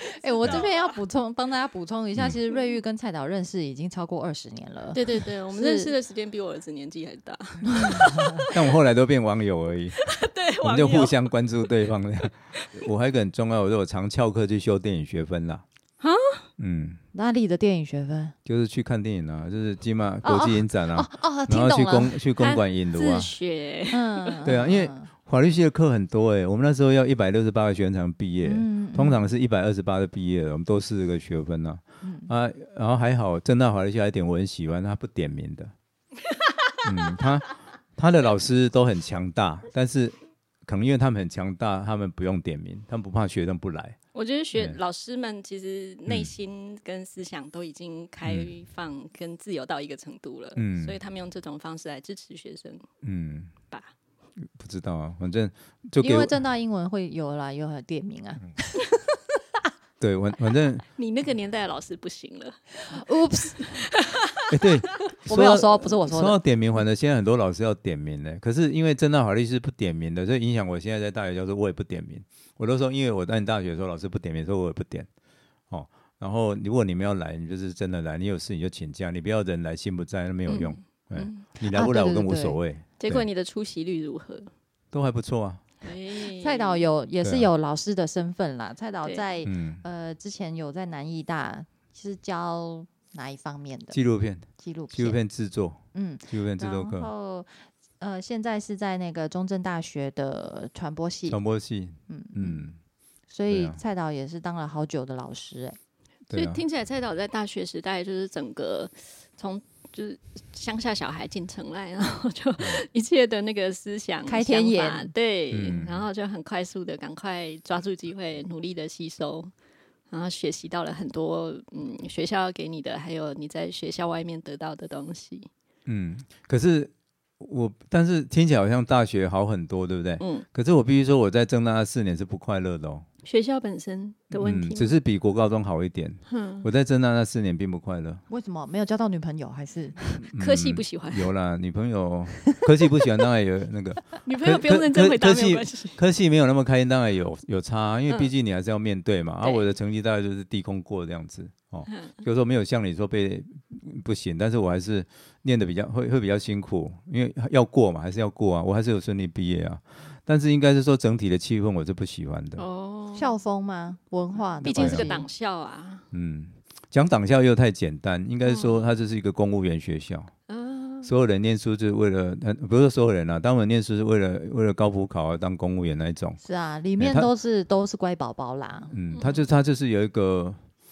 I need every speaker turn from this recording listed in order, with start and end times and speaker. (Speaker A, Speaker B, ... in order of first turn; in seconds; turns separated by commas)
Speaker A: 0.1-5.9, Speaker B: 0.4-0.9, Speaker B: 4.9-8.8, Speaker A: 7.7-8.5, Speaker C: 8.5-10.1, Speaker B: 10.0-11.3, Speaker C: 10.6-15.6, Speaker B: 16.0-16.5, Speaker C: 16.6-17.0, Speaker A: 17.1-18.4, Speaker C: 18.5-23.3, Speaker A: 20.2-22.2, Speaker B: 22.4-24.4, Speaker A: 23.9-25.1, Speaker C: 24.4-35.7, Speaker A: 28.4-29.3, Speaker A: 32.0-32.3, Speaker C: 36.8-44.0, Speaker B: 44.1-52.9, Speaker C: 46.1-46.3, Speaker C: 48.2-48.5, Speaker C: 50.6-51.0, Speaker C: 53.0-53.5, Speaker C: 54.5-56.3, Speaker A: 56.0-59.2, Speaker C: 60.0-60.9, Speaker B: 61.0-62.6, Speaker A: 62.8-63.8, Speaker B: 63.6-64.5, Speaker C: 64.5-75.1, Speaker A: 65.3-66.4, Speaker C: 75.7-83.3, Speaker B: 80.5-81.5, Speaker A: 81.7-82.6, Speaker B: 83.0-84.5, Speaker C: 84.9-85.6, Speaker B: 85.8-86.8, Speaker A: 86.3-94.0, Speaker C: 89.5-89.8, Speaker C: 93.9-97.1, Speaker A: 94.6-95.2, Speaker A: 95.9-101.4, Speaker C: 101.3-102.8, Speaker A: 102.1-102.6, Speaker A: 103.3-105.8, Speaker C: 103.5-103.8, Speaker C: 106.3-106.6, Speaker B: 106.3-119.5, Speaker C: 112.6-112.8, Speaker A: 114.3-115.1, Speaker C: 115.5-116.1, Speaker B: 120.1-125.5, Speaker C: 125.9-133.1, Speaker B: 130.2-130.5, Speaker B: 133.2-134.9, Speaker C: 134.3-138.2, Speaker B: 136.3-136.7, Speaker A: 138.3-140.0, Speaker C: 140.2-162.7, Speaker B: 140.4-141.3, Speaker B: 144.2-146.0, Speaker B: 149.4-149.7, Speaker B: 151.9-152.2, Speaker B: 162.6-163.3, Speaker A: 163.2-165.3, Speaker B: 164.5-166.1, Speaker C: 164.6-165.1, Speaker C: 166.1-170.3, Speaker B: 168.4-168.8, Speaker B: 170.5-171.1, Speaker C: 171.0-176.4, Speaker A: 176.4-178.9, Speaker C: 177.0-177.3, Speaker C: 178.9-180.6, Speaker B: 179.1-179.5